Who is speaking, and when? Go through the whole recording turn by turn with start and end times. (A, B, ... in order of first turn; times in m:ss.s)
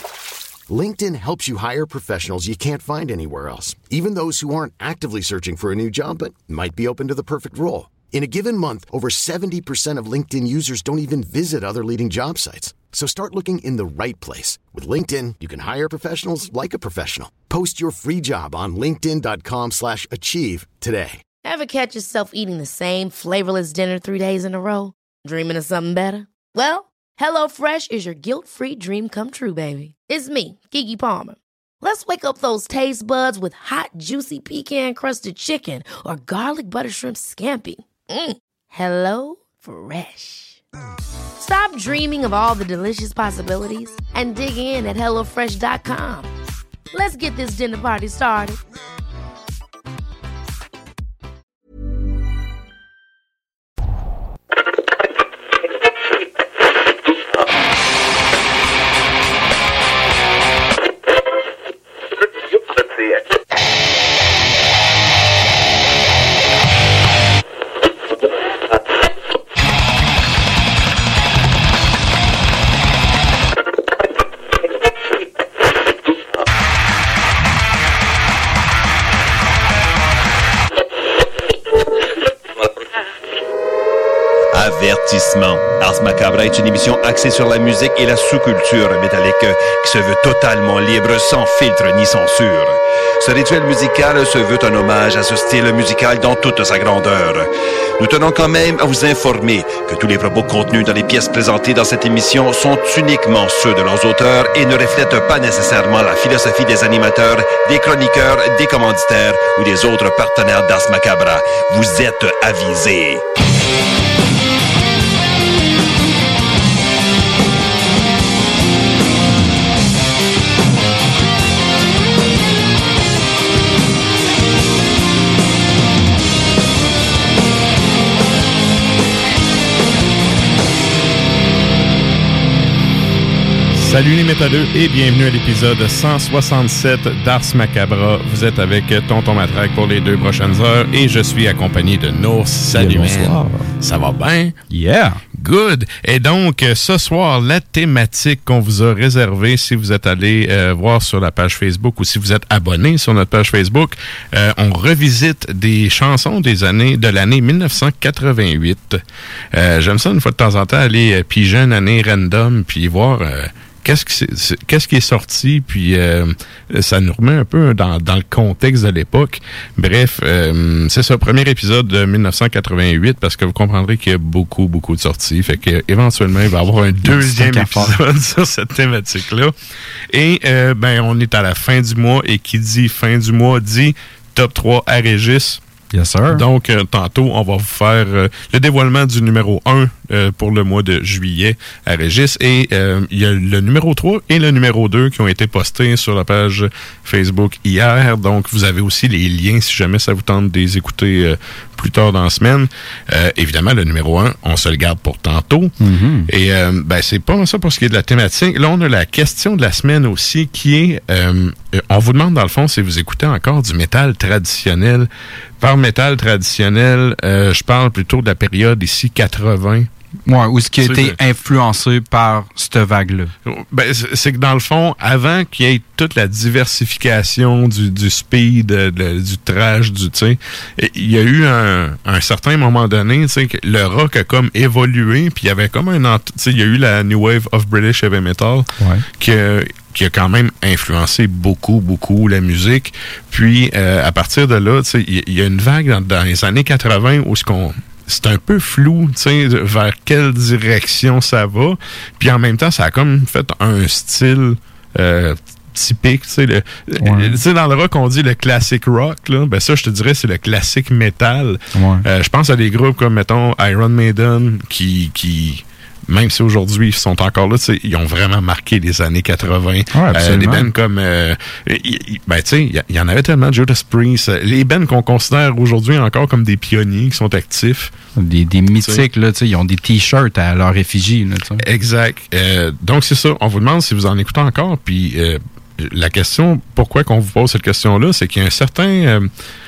0:00.7-0:21.2 A
0:21.4-0:40.6 B
0:41.4-0:46.3 B
0:46.9-0:48.6 B
1:24.5-1:53.2 C
2:13.7-2:24.6 D
2:22.8-2:23.5 E
2:24.7-2:25.2 E
2:25.3-2:39.0 D
2:39.5-2:59.5 D
2:57.0-2:58.0 E
3:00.1-3:05.6 D
3:05.9-3:06.4 E
3:06.3-3:25.7 D
3:25.8-3:26.3 E
3:26.3-3:35.1 D
3:35.6-3:39.9 D
3:40.3-3:43.3 E
3:40.8-3:41.2 D
3:43.5-4:37.9 D
3:58.8-3:59.0 E
4:17.0-4:17.4 E
4:21.7-4:22.0 E
4:29.9-4:30.7 E
4:38.2-4:41.6 E
4:41.6-4:49.3 D